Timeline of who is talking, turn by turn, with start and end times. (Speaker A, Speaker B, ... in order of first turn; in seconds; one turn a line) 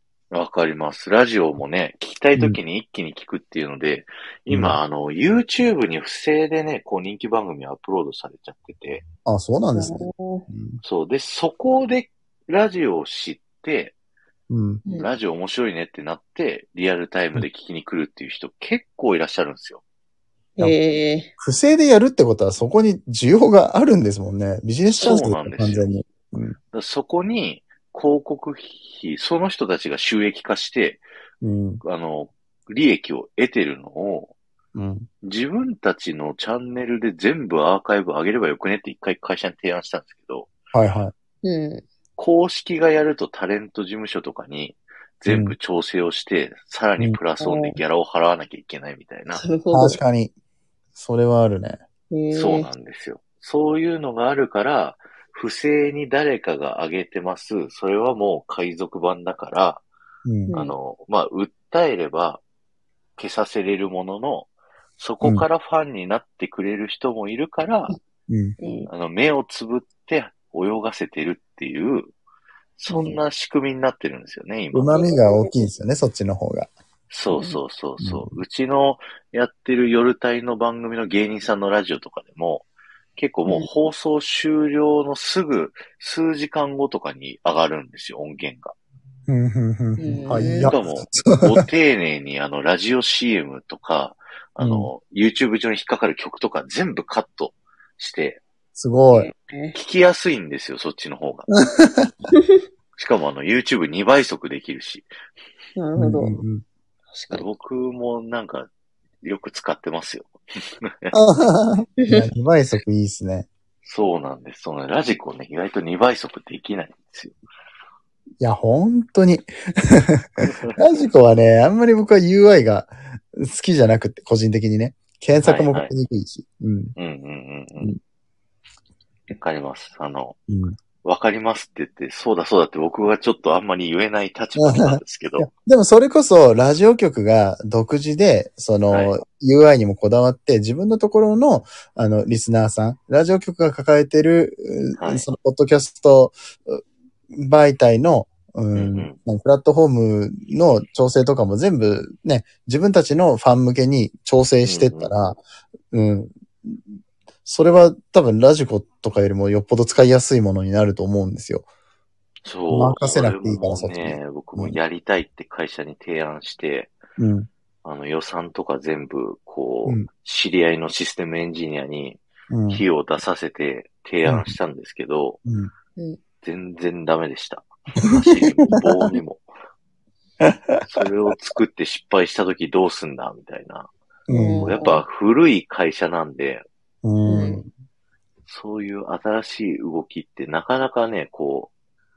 Speaker A: 0.3-9.0
Speaker B: 4.5-4.8
Speaker B: 9.2-10.8
Speaker C: 9.8-10.5
Speaker A: 10.8-13.9
Speaker B: 14.5-14.8
Speaker C: 14.8-15.1
Speaker A: 14.9-19.8
Speaker C: 20.6-21.3
Speaker B: 21.4-26.6
Speaker A: 25.0-25.9
Speaker A: 26.7-31.0
Speaker B: 31.4-31.8
Speaker A: 31.8-34.3
Speaker B: 34.8-35.1
Speaker A: 35.2-40.5
Speaker B: 40.7-41.1
Speaker C: 41.4-41.9
Speaker A: 42.2-49.4
Speaker B: 45.3-45.5
Speaker C: 47.4-47.8
Speaker C: 49.3-50.0
Speaker B: 49.7-50.3
Speaker B: 51.0-51.8
Speaker C: 52.1-52.7
Speaker A: 52.3-59.9
Speaker B: 60.2-60.5
Speaker C: 60.5-60.8
Speaker A: 60.5-62.4
Speaker A: 63.2-68.0
Speaker B: 68.3-68.6
Speaker C: 68.6-68.9
Speaker A: 68.9-72.1
Speaker A: 72.8-75.0
Speaker C: 72.9-73.2
Speaker B: 74.7-76.7
Speaker A: 77.1-88.8
Speaker C: 77.3-77.6
Speaker B: 78.0-78.3
Speaker B: 89.3-91.5
Speaker C: 90.0-90.7
Speaker A: 90.6-98.4
Speaker B: 94.6-94.9
Speaker B: 98.8-99.3
Speaker C: 99.3-99.8
Speaker A: 99.7-101.5
Speaker B: 101.5-102.1
Speaker C: 102.3-102.6
Speaker A: 103.0-105.1
Speaker C: 105.8-106.4
Speaker B: 106.0-106.6
Speaker C: 107.1-107.5
Speaker A: 107.3-108.7
Speaker A: 109.2-111.2
Speaker B: 111.1-113.5
Speaker A: 113.8-117.4
Speaker B: 118.4-127.0
Speaker A: 120.4-120.8
Speaker A: 125.4-125.9
Speaker A: 127.0-127.9
Speaker A: 129.3-130.4
Speaker B: 130.5-130.8
Speaker A: 131.0-135.5
Speaker B: 134.6-155.4
Speaker A: 138.9-139.2
Speaker A: 144.9-145.2
Speaker A: 148.7-149.2
Speaker A: 154.7-155.1
Speaker B: 155.9-156.8
Speaker B: 157.4-161.7
Speaker A: 162.4-167.0
Speaker B: 162.7-164.8
Speaker B: 167.2-167.5
Speaker A: 167.8-175.4
Speaker B: 172.5-172.8
Speaker B: 174.2-174.5
Speaker B: 175.5-175.7
Speaker A: 176.4-179.5
Speaker B: 178.8-179.1
Speaker B: 180.4-180.8
Speaker A: 180.8-183.9
Speaker B: 184.3-184.7
Speaker C: 184.3-185.0
Speaker A: 184.6-186.7
Speaker B: 187.0-187.7
Speaker C: 187.3-187.6
Speaker A: 188.5-191.7